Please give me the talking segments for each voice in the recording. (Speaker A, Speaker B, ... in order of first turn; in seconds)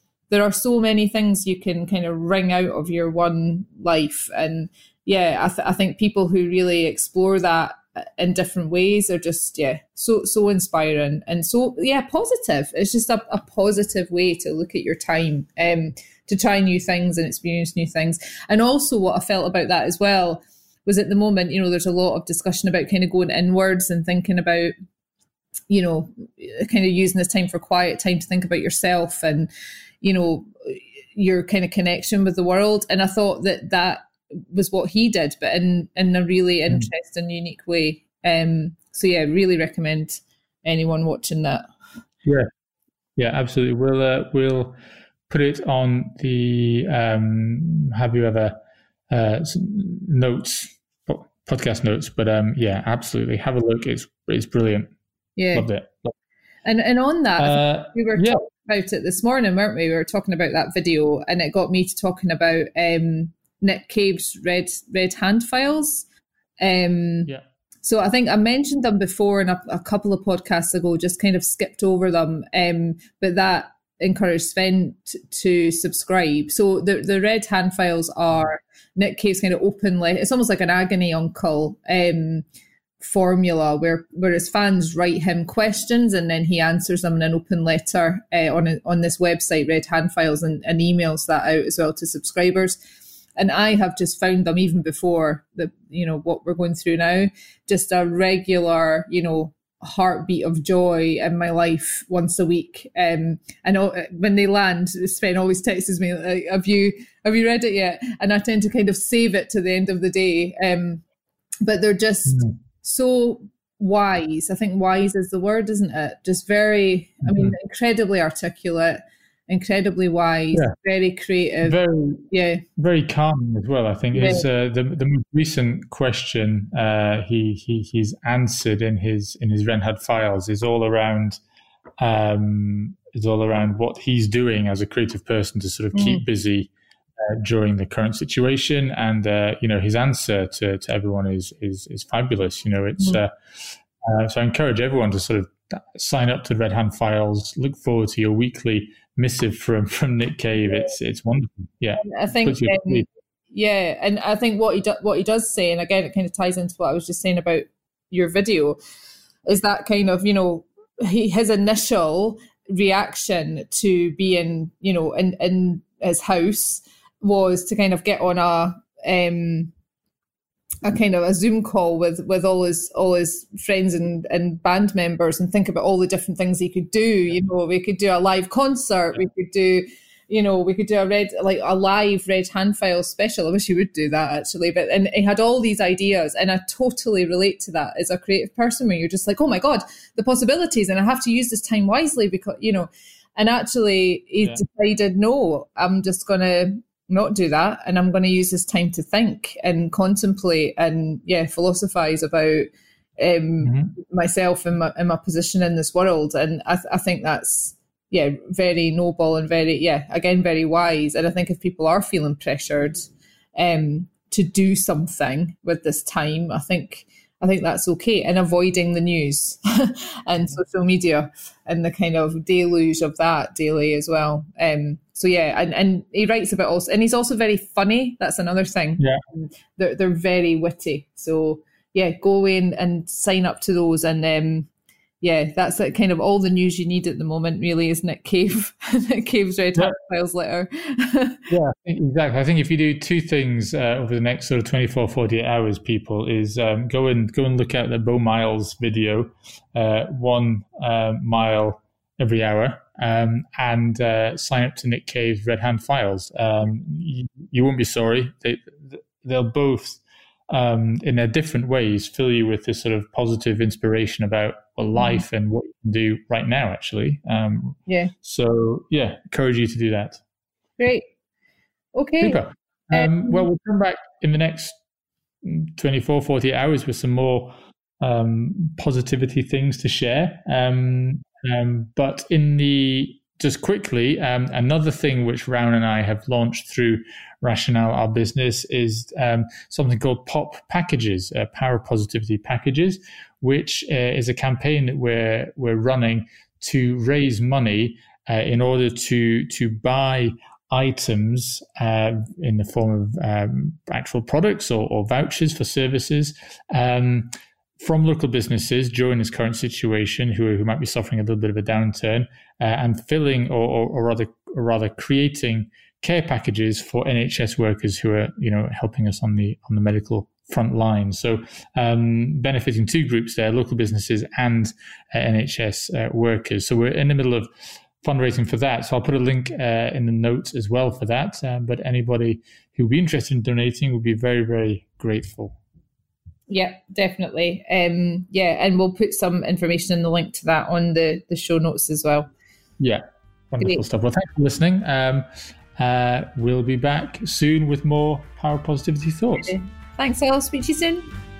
Speaker A: 0.3-24.7, 25.7-29.5, 30.0-41.6, 55.4-55.7, 56.6-66.0, 66.6-82.4, 83.0-92.8, 93.4-111.0, 111.6-121.8, 122.3-122.6, 124.1-124.5, 135.9-136.2, 152.0-158.8, 159.4-169.7, 170.8-202.7, 203.2-234.7, 235.2-241.4, 264.9-265.2, 267.9-268.1, 270.8-271.0, 271.9-273.5, 336.5-342.3, 349.4-351.1
Speaker B: 43.2-44.7, 45.3-48.6, 49.1-54.9, 55.5-56.1, 57.4-58.4, 112.3-112.5, 117.2-117.5, 121.6-122.2, 122.8-131.4, 132.0-136.7, 137.2-153.1, 203.6-203.9, 241.5-270.2, 272.2-274.8, 275.4-327.5, 328.0-335.6, 342.8-349.5